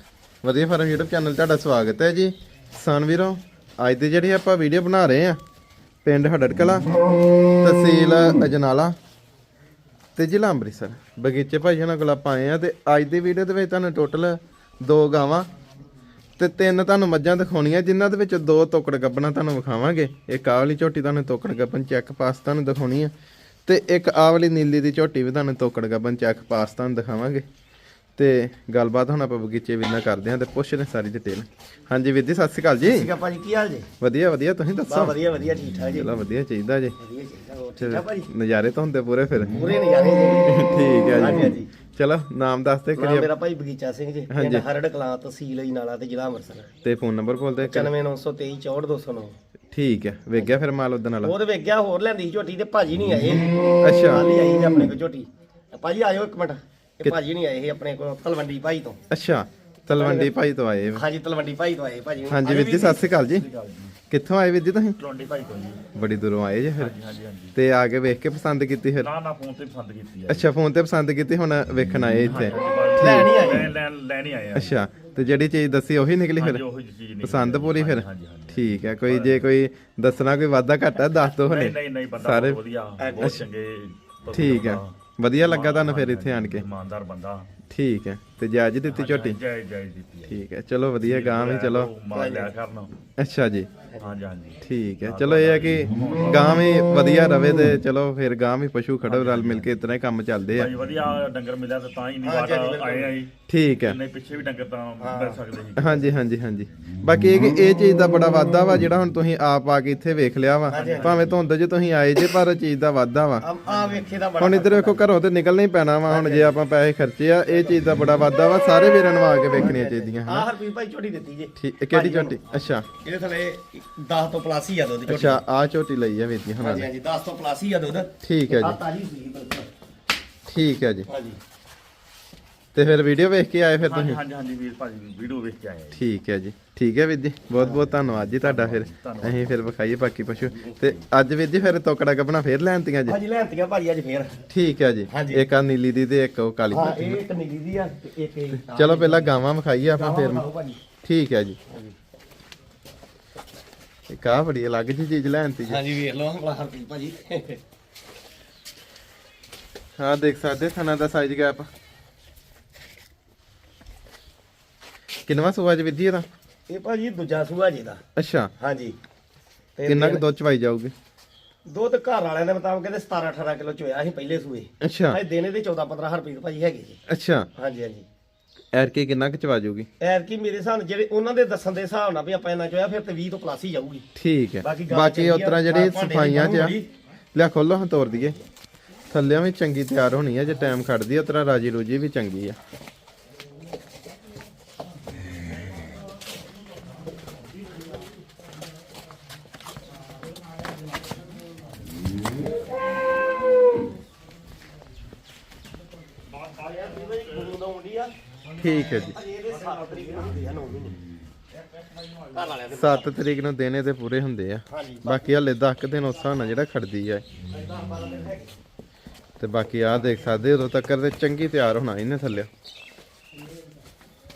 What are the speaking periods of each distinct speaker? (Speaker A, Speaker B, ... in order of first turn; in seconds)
Speaker A: 0.4-5.4, 6.0-6.8, 7.6-8.9, 10.2-15.5, 16.4-23.1, 23.6-27.4, 28.2-33.1, 34.0-35.1, 35.9-37.0, 37.8-39.6, 40.5-43.3, 44.3-44.6, 46.8-47.9, 49.7-51.3, 53.8-54.2, 59.1-61.0, 62.3-63.5, 64.1-65.0, 65.9-66.9, 67.5-69.1, 70.3-73.3, 74.5-76.6, 77.2-82.6, 83.2-83.4, 84.3-86.7, 87.7-89.4, 90.3-91.9, 93.2-93.7, 94.6-100.7, 103.5-104.0, 105.8-113.4, 114.4-120.5, 121.6-122.9, 125.1-126.9, 128.2-128.8, 130.5-131.1, 132.7-134.2, 135.9-143.2, 144.5-147.2, 148.7-150.4, 151.0-151.6, 154.1-155.8, 160.0-161.7, 165.2-166.3, 168.2-168.5, 169.8-170.9, 174.8-175.2, 177.1-177.5, 178.7-179.9, 184.1-186.8, 187.3-188.4, 189.1-192.6, 208.6-209.1, 212.7-217.2, 219.4-222.5
Speaker B: 32.9-33.9, 34.9-36.1, 37.0-38.3, 39.5-41.7, 43.0-46.7, 47.6-49.4, 50.3-50.6, 51.2-59.0, 59.9-60.3, 60.9-63.1, 73.0-73.7, 83.0-83.4, 92.1-92.5, 102.2-103.1, 105.0-105.4, 110.7-111.2, 113.4-115.1, 116.1-116.6, 119.5-122.4, 123.0-125.4, 126.6-129.7, 131.1-131.4, 137.5-137.9, 143.1-144.4, 145.1-145.5, 146.7-149.3, 149.9-150.8, 151.7-151.9, 155.6-157.6, 166.7-168.0, 168.6-169.0, 169.8-170.2, 171.6-177.0, 177.5-178.1, 180.0-184.1, 184.6-186.9, 206.6-208.1, 208.6-211.0, 212.3-213.1, 214.7-215.3, 217.5-218.5
Speaker C: 63.3-63.9, 65.0-65.8, 66.7-67.5, 69.0-70.4, 72.1-74.8, 76.4-79.5, 81.1-87.5, 88.9-90.4, 91.0-92.9, 94.0-96.7, 99.1-99.7, 100.5-106.2, 110.7-111.4, 133.8-136.0, 138.2-139.6, 206.3-207.6, 209.3-210.4, 211.6-212.6